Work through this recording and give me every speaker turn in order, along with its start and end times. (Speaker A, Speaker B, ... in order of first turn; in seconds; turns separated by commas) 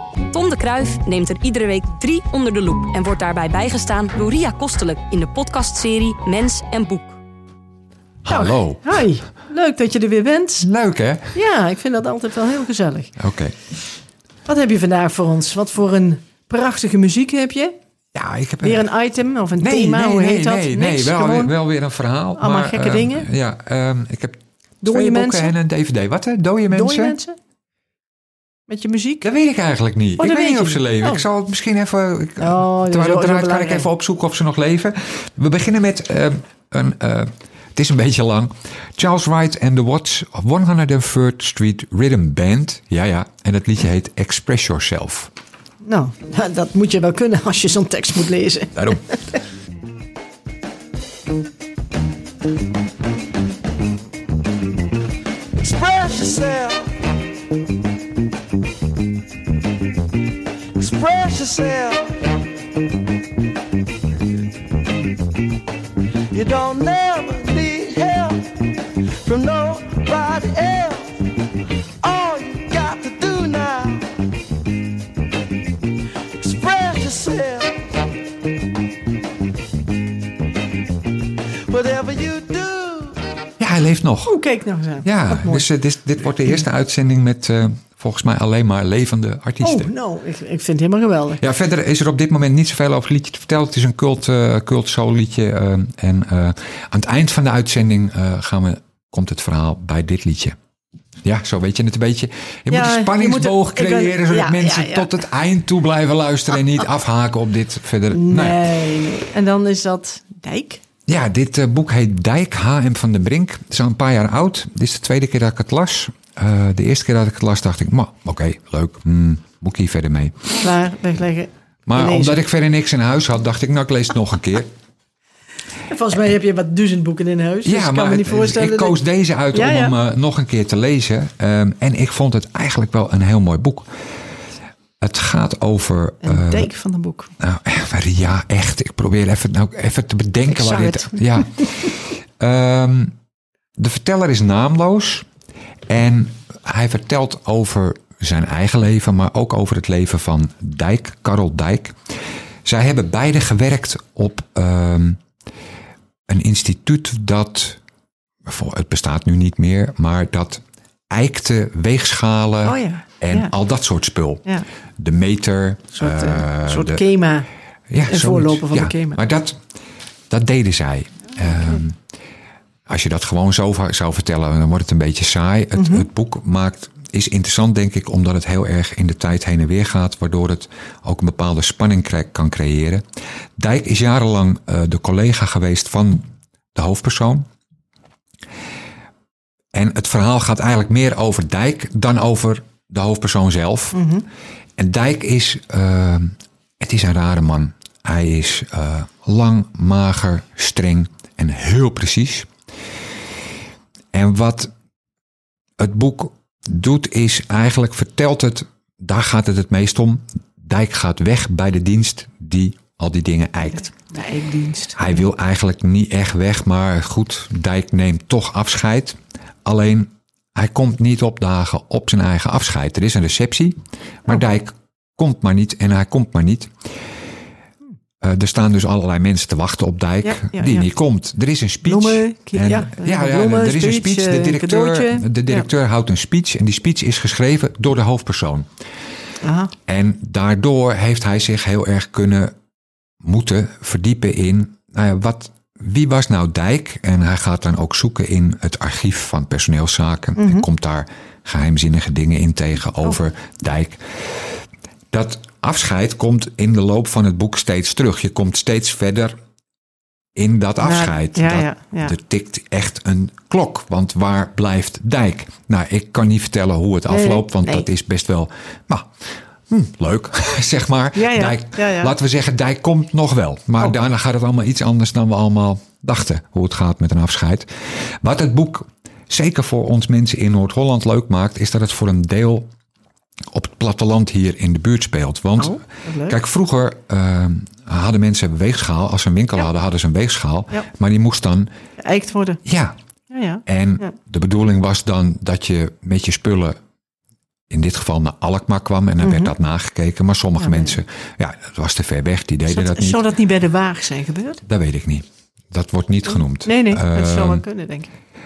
Speaker A: 0.3-7.2, Speaker B: 8.2-8.9, Speaker C: 8.3-10.7, Speaker B: 10.6-11.3, Speaker C: 11.3-13.1, Speaker B: 13.2-13.5, Speaker C: 14.4-17.8, Speaker B: 18.1-18.9, Speaker C: 18.6-21.5, Speaker B: 19.6-27.1, Speaker C: 22.4-23.3, Speaker C: 24.8-25.5, Speaker C: 26.7-27.4, Speaker C: 28.7-29.2, Speaker B: 29.2-45.3, Speaker C: 30.2-31.2, Speaker C: 32.4-33.9, Speaker C: 45.8-49.4, Speaker D: 55.6-57.0, Speaker D: 60.8-62.4, Speaker D: 66.3-68.7, Speaker D: 69.2-71.2, Speaker D: 72.0-74.2, Speaker D: 76.3-78.0, Speaker D: 81.7-83.2, Speaker B: 83.6-84.3, Speaker C: 84.3-85.7, Speaker B: 85.0-89.9, Speaker C: 89.6-91.4, Speaker B: 91.4-100.6, Speaker B: 101.2-108.7, Speaker C: 102.7-105.1, Speaker C: 108.1-110.8, Speaker B: 111.1-120.5, Speaker C: 120.6-122.4, Speaker B: 121.9-124.7, Speaker C: 125.8-129.0, Speaker B: 127.6-133.9, Speaker C: 129.5-129.9, Speaker B: 135.0-136.7, Speaker C: 136.2-137.3, Speaker B: 137.4-143.2, Speaker C: 140.5-141.2, Speaker B: 143.8-145.3, Speaker B: 145.9-152.0, Speaker B: 152.6-155.2, Speaker B: 156.3-157.8, Speaker B: 158.4-164.4, Speaker C: 162.6-163.5, Speaker B: 165.0-167.0, Speaker C: 165.9-167.5, Speaker B: 167.9-169.6, Speaker C: 168.1-169.2, Speaker B: 170.3-172.0, Speaker B: 172.9-183.0, Speaker C: 175.8-176.0, Speaker B: 183.6-187.4, Speaker B: 189.7-194.0, Speaker C: 193.9-194.2, Speaker B: 194.8-202.5, Speaker B: 204.1-204.7, Speaker B: 205.8-213.9, Speaker C: 214.1-215.2, Speaker B: 214.9-226.7, Speaker B: 228.2-238.7, Speaker C: 230.2-230.8, Speaker C: 231.8-235.7, Speaker C: 239.4-239.7, Speaker B: 239.9-242.5, Speaker B: 243.2-259.4, Speaker C: 250.4-250.7, Speaker B: 260.4-282.7, Speaker C: 260.8-262.1, Speaker C: 267.1-267.9, Speaker C: 271.1-272.1, Speaker B: 283.5-291.7, Speaker C: 285.6-286.4, Speaker C: 292.0-292.6, Speaker B: 292.6-292.9, Speaker C: 293.3-294.1, Speaker B: 293.6-296.8, Speaker B: 297.7-303.2, Speaker C: 299.2-299.5, Speaker C: 300.6-301.0, Speaker C: 302.7-304.6, Speaker B: 304.6-307.6, Speaker C: 306.6-308.1